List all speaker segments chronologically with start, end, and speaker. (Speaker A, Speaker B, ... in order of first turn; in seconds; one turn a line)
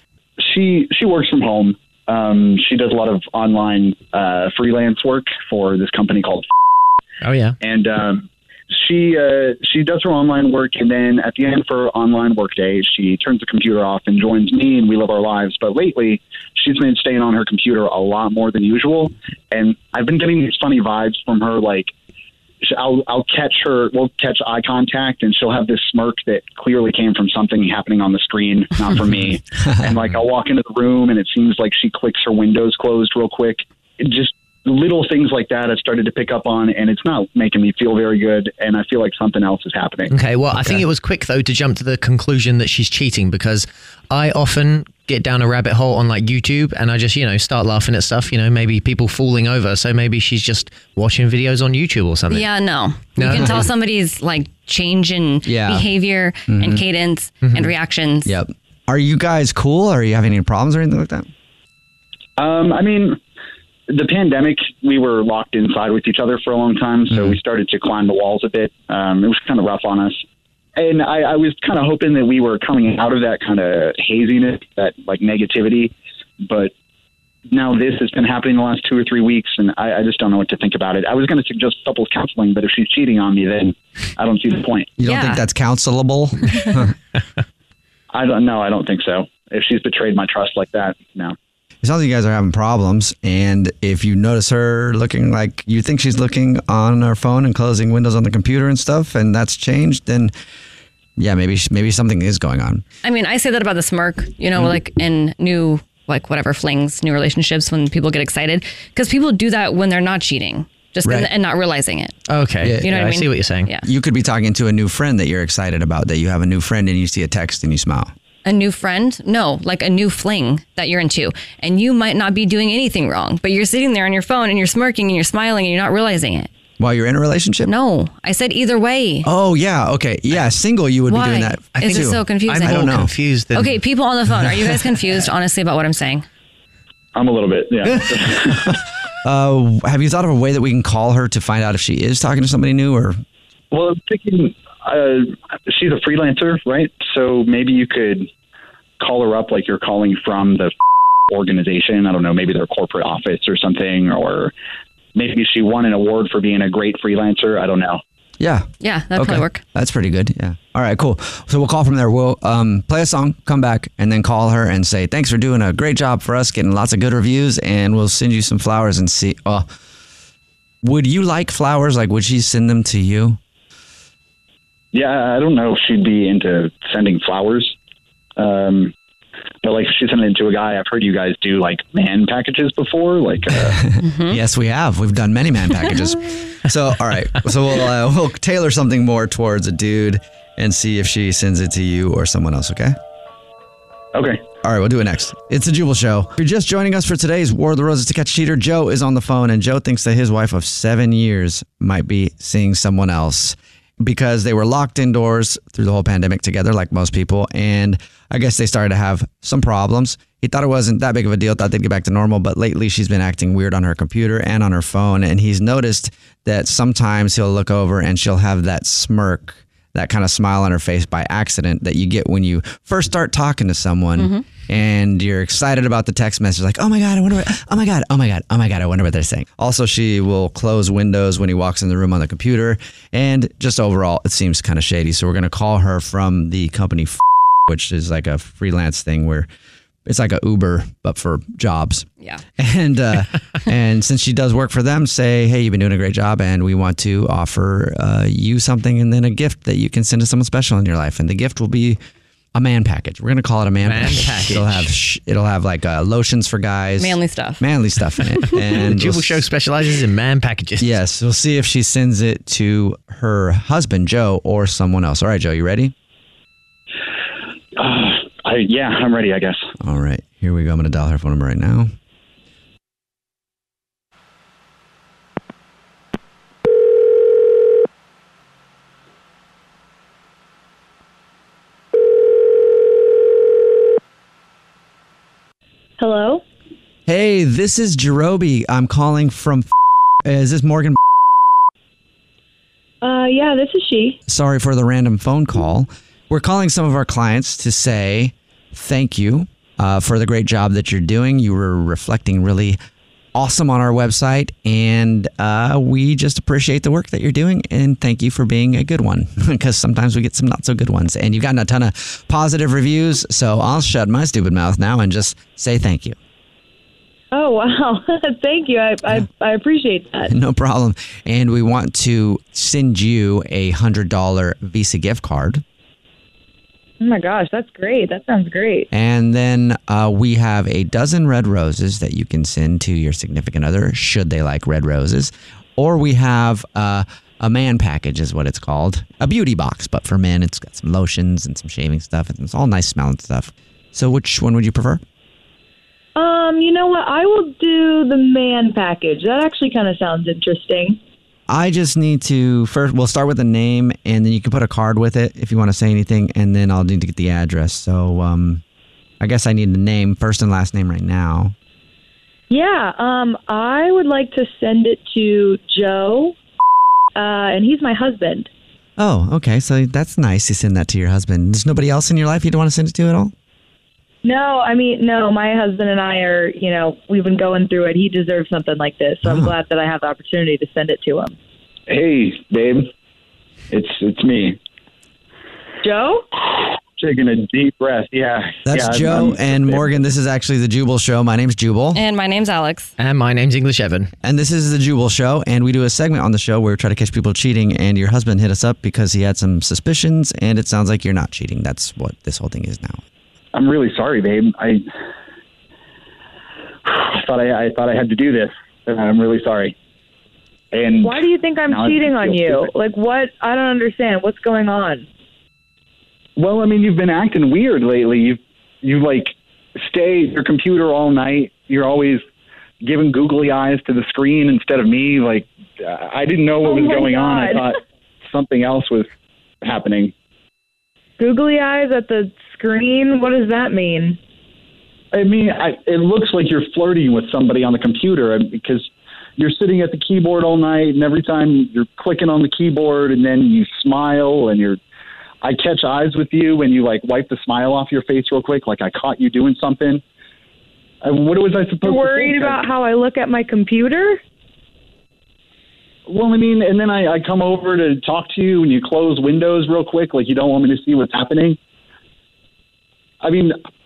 Speaker A: 0.4-6.5
Speaker B: 7.2-7.6
Speaker A: 7.6-21.9
Speaker A: 22.6-40.1
Speaker B: 40.1-52.6
Speaker C: 52.3-58.4
Speaker B: 53.1-53.7
Speaker D: 55.4-55.9
Speaker D: 56.5-56.8
Speaker B: 57.4-57.7
Speaker D: 58.2-61.3
Speaker A: 62.4-63.2
Speaker A: 63.9-70.2
Speaker D: 67.1-67.4
Speaker A: 70.8-76.7
Speaker A: 77.5-84.9
Speaker D: 85.0-86.9
Speaker C: 85.0-85.4
Speaker A: 88.1-91.3
Speaker D: 91.8-100.3
Speaker D: 101.2-102.8
Speaker C: 103.0-112.2
Speaker D: 111.0-111.3
Speaker B: 112.2-113.7
Speaker C: 112.7-113.8
Speaker D: 113.8-118.1
Speaker C: 118.4-126.5
Speaker D: 126.8-127.7
Speaker C: 127.6-129.3
Speaker D: 129.2-133.1
Speaker C: 131.1-136.2
Speaker B: 131.7-134.9
Speaker A: 137.1-138.7
Speaker D: 138.6-143.2
Speaker A: 143.7-148.3
Speaker A: 149.0-150.7
Speaker A: 151.3-154.5
Speaker A: 155.1-158.0
Speaker D: 158.4-169.7
Speaker C: 158.8-159.6
Speaker D: 170.8-173.4
Speaker A: 174.9-177.7
Speaker A: 178.4-178.9
Speaker A: 179.6-183.8
Speaker D: 183.6-192.9
Speaker C: 184.0-184.4
Speaker A: 194.1-194.4
Speaker D: 194.6-239.5
Speaker C: 224.2-224.4
Speaker D: 240.1-252.0
Speaker D: 252.5-259.5
Speaker B: 253.8-254.9
Speaker C: 257.0-257.7
Speaker B: 258.7-261.0
Speaker D: 260.8-265.9
Speaker A: 267.8-269.6
Speaker D: 269.8-271.9
Speaker E: 286.0-286.4
Speaker D: 287.1-289.6
Speaker D: 290.2-291.0
Speaker E: 293.0-294.2
Speaker D: 294.3-302.8
Speaker D: 303.4-316.1
Speaker E: 317.3-320.3
Speaker D: 320.3-325.6
Speaker E: 327.0-328.9
Speaker D: 328.9-345.0
Speaker E: 346.1-351.0
Speaker D: 351.5-358.6
Speaker D: 359.2-361.5
Speaker E: 362.5-366.4
Speaker E: 367.1-368.5
Speaker D: 369.0-373.3
Speaker E: 374.2-381.3
Speaker D: 379.2-379.5
Speaker A: 381.9-382.9
Speaker A: 383.7-384.6
Speaker E: 385.8-386.2
Speaker A: 386.5-390.0
Speaker D: 388.6-392.0
Speaker C: 391.9-392.9
Speaker B: 393.0-394.1
Speaker D: 394.2-403.0
Speaker A: 403.5-404.8
Speaker A: 406.8-409.8
Speaker A: 410.7-412.7
Speaker E: 411.0-415.0
Speaker A: 416.4-422.2
Speaker A: 422.8-429.1
Speaker E: 426.6-427.7
Speaker A: 429.6-430.1
Speaker E: 431.2-434.2
Speaker A: 435.1-444.8
Speaker A: 445.4-450.0
Speaker A: 451.0-452.7
Speaker E: 451.8-454.2
Speaker A: 456.1-461.6
Speaker A: 463.2-463.6